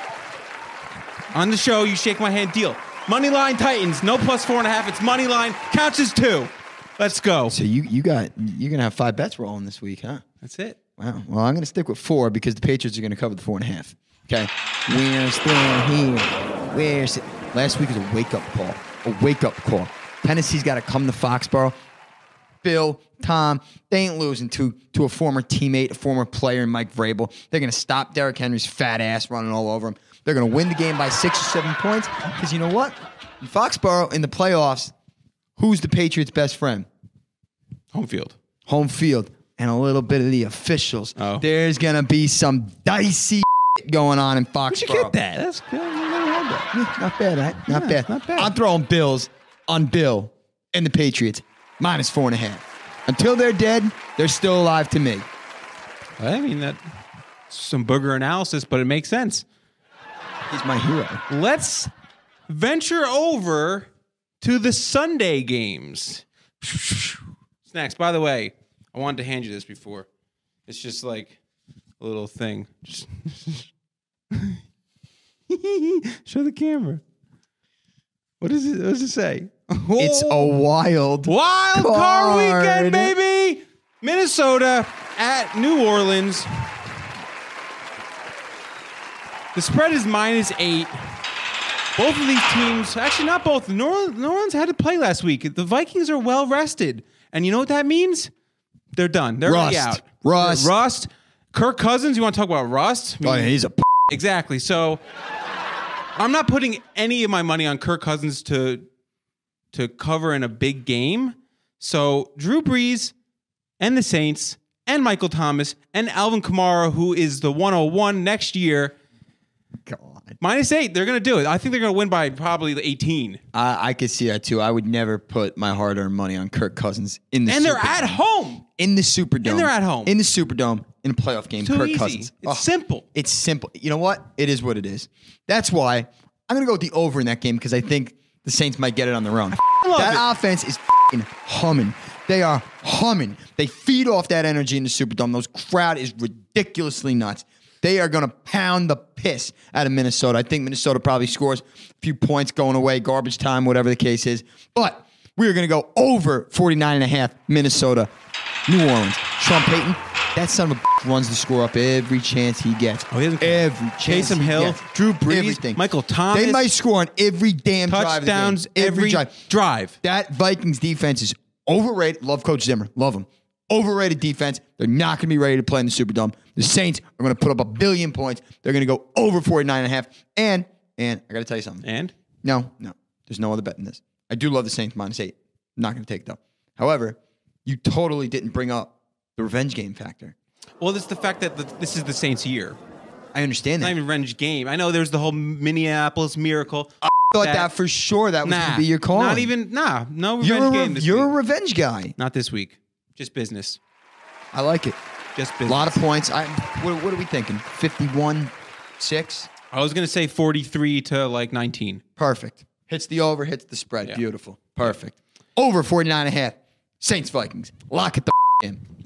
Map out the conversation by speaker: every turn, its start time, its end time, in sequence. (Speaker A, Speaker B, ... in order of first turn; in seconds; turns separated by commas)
Speaker A: 1.3-7.6, Speaker B: 7.5-10.2, Speaker A: 10.4-10.8, Speaker B: 11.0-21.8, Speaker B: 22.6-34.9, Speaker B: 35.6-36.9, Speaker A: 37.9-38.4, Speaker B: 38.7-45.1, Speaker A: 41.2-41.5, Speaker A: 44.7-46.7, Speaker B: 46.7-55.3, Speaker A: 47.7-48.5, Speaker A: 56.2-56.8, Speaker A: 57.5-59.5, Speaker B: 60.5-61.2, Speaker A: 61.3-61.9, Speaker A: 62.5-63.9, Speaker A: 64.4-70.1, Speaker A: 70.7-71.3, Speaker A: 72.0-73.7, Speaker A: 74.3-74.6, Speaker A: 75.5-77.0, Speaker A: 78.4-80.6, Speaker B: 80.0-83.2, Speaker A: 81.3-86.7, Speaker A: 89.5-91.0, Speaker A: 92.0-98.3, Speaker A: 99.0-103.5, Speaker B: 99.5-100.7, Speaker B: 103.2-103.9, Speaker A: 104.1-105.0, Speaker A: 106.2-108.9, Speaker A: 109.7-113.1, Speaker A: 113.8-119.0, Speaker B: 119.9-120.4, Speaker A: 120.4-123.4, Speaker B: 123.5-128.2, Speaker A: 127.5-128.7, Speaker B: 128.8-158.1, Speaker A: 129.4-130.1, Speaker A: 131.6-133.1, Speaker A: 139.6-140.2, Speaker B: 158.7-169.3, Speaker A: 163.1-166.7, Speaker A: 167.9-169.9, Speaker B: 170.0-181.9, Speaker A: 181.8-182.1, Speaker B: 182.4-190.3, Speaker A: 190.8-192.8, Speaker B: 193.3-194.0, Speaker A: 193.8-197.7, Speaker B: 197.1-199.5, Speaker A: 198.4-201.4, Speaker B: 200.4-202.2, Speaker A: 202.2-203.8, Speaker B: 204.5-205.0, Speaker A: 205.3-206.0, Speaker B: 205.7-209.5, Speaker A: 209.7-212.0, Speaker B: 212.2-218.8